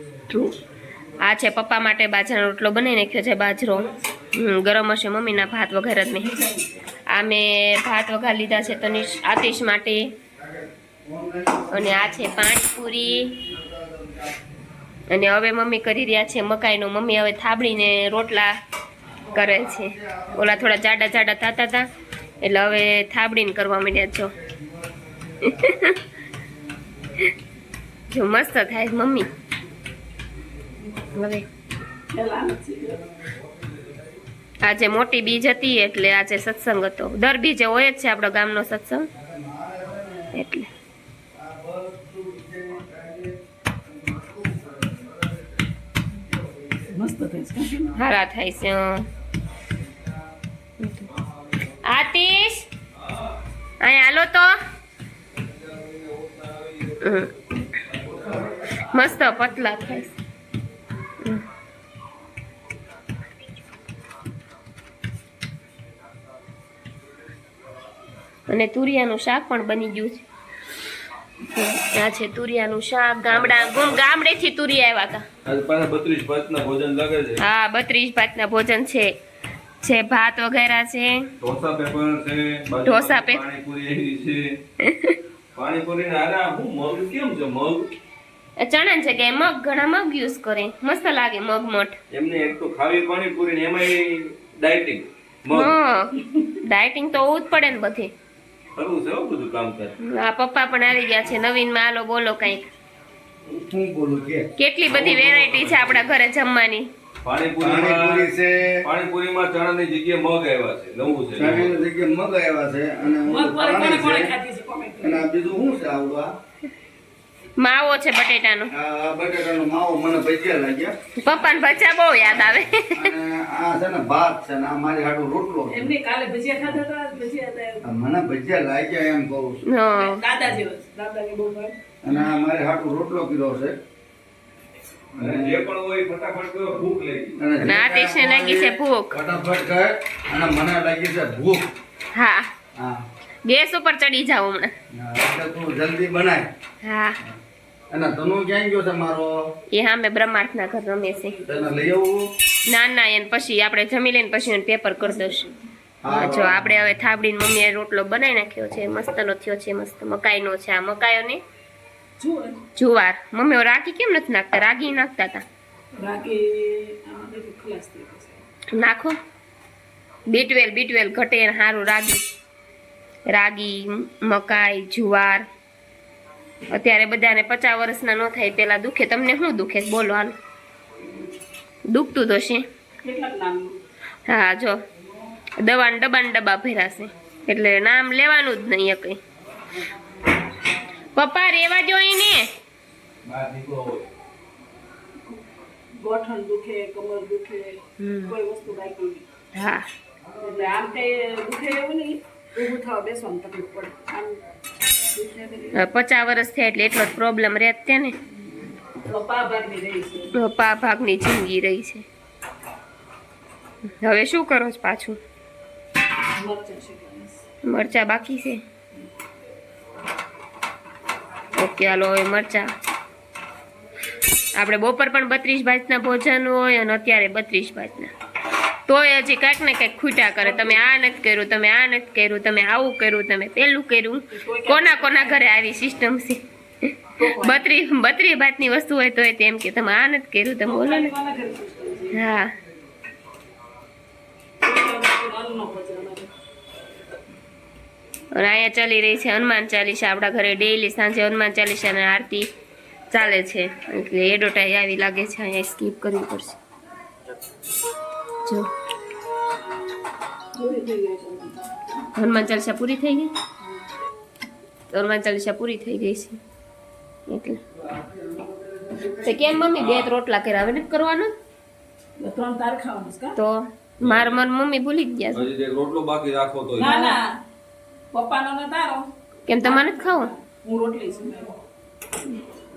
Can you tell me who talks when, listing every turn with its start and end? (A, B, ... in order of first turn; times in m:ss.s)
0:00.2-0:01.2 A
0:00.3-0:00.6 B
0:01.2-0:06.3 B
0:03.7-0:04.1 C
0:06.2-0:06.8 C
0:07.1-0:10.1 B
0:10.4-0:14.5 A
0:11.7-0:13.4 B
0:15.1-0:18.5 B
0:19.3-0:20.8 A
0:19.3-0:21.9 B
0:22.4-0:24.4 B
0:24.4-0:27.3 A
0:25.4-0:26.0 B
0:28.1-0:29.3 B
0:31.1-0:31.4 B
0:32.1-0:33.0 C
0:32.9-0:34.2 A
0:34.6-0:39.1 B
0:39.1-0:40.4 A
0:40.3-0:40.7 B
0:41.3-0:45.6 A
0:46.2-0:46.9 A
0:46.9-0:47.9 C
0:47.9-0:49.1 B
0:50.8-0:51.1 B
0:51.8-0:52.7 B
0:53.8-0:54.6 B
0:55.4-0:59.0 D
0:57.0-0:57.3 B
0:58.2-0:58.5 A
0:58.9-1:00.1 B
1:08.5-1:10.2 B
1:11.6-1:15.2 B
1:13.3-1:14.1 D
1:15.4-1:17.4 D
1:17.4-1:19.1 B
1:19.8-1:21.3 B
1:21.4-1:24.6 D
1:22.9-1:23.4 B
1:24.8-1:25.2 B
1:25.6-1:27.9 D
1:28.6-1:32.0 B
1:32.1-1:35.8 D
1:35.5-1:38.1 B
1:38.8-1:40.0 D
1:40.0-1:42.7 B
1:43.5-1:44.5 A
1:44.6-1:46.9 B
1:44.9-1:46.1 D
1:47.2-1:48.3 D
1:47.6-1:48.8 A
1:48.8-1:51.8 D
1:51.3-1:54.3 A
1:53.3-1:55.3 C
1:55.0-1:56.4 A
1:57.6-1:58.7 B
1:58.7-2:01.0 A
2:01.2-2:03.1 B
2:02.9-2:05.9 A
2:05.7-2:07.9 C
2:07.8-2:09.6 A
2:09.7-2:10.2 B
2:09.9-2:11.8 C
2:12.0-2:13.8 A
2:15.2-2:15.7 A
2:15.2-2:17.4 D
2:17.4-2:21.7 A
2:17.6-2:19.2 B
2:22.1-2:22.5 B
2:22.8-2:23.0 A
2:23.4-2:24.7 B
2:24.9-2:26.5 A
2:26.8-2:27.2 B
2:27.9-2:29.4 A
2:29.7-2:31.4 B
2:31.2-2:31.7 C
2:31.5-2:32.3 A
2:32.7-2:35.5 B
2:36.0-2:36.9 A
2:36.1-2:41.4 B
2:42.2-2:42.6 C
2:42.8-2:45.4 B
2:46.0-2:48.4 C
2:48.7-2:49.2 B
2:50.3-2:52.2 B
2:53.3-2:55.5 B
2:56.7-3:00.3 B
3:01.9-3:02.6 B
3:03.0-3:03.8 C
3:04.3-3:04.8 B
3:05.6-3:09.2 B
3:11.1-3:12.5 B
3:13.2-3:14.1 D
3:16.0-3:19.2 C
3:18.0-3:18.4 B
3:19.5-3:19.8 B
3:20.4-3:24.4 C
3:24.9-3:25.8 C
3:25.8-3:28.2 B
3:29.0-3:30.3 C
3:30.3-3:32.1 B
3:34.0-3:35.2 B
3:36.4-3:37.4 C
3:37.6-3:38.6 B
3:41.6-3:42.7 B
3:44.6-3:48.1 B
3:48.9-4:01.1 B
3:50.4-3:50.9 C
3:54.3-3:55.4 C
3:57.2-3:57.7 C
4:00.6-4:02.2 C
4:02.1-4:02.5 B
4:04.6-4:06.3 C
4:08.3-4:12.5 B
4:13.1-4:16.6 B
4:20.6-4:21.9 C
4:22.2-4:23.3 B
4:24.9-4:26.4 B
4:27.3-4:27.6 B
4:27.8-4:29.8 A
4:29.2-4:31.4 B
4:29.7-4:30.1 D
4:32.2-4:33.4 C
4:33.4-4:35.5 B
4:34.0-4:34.4 D
4:35.4-4:37.0 D
4:36.8-4:37.4 C
4:36.8-4:37.2 B
4:38.1-4:39.1 C
4:39.5-4:40.3 B
4:39.6-4:41.5 C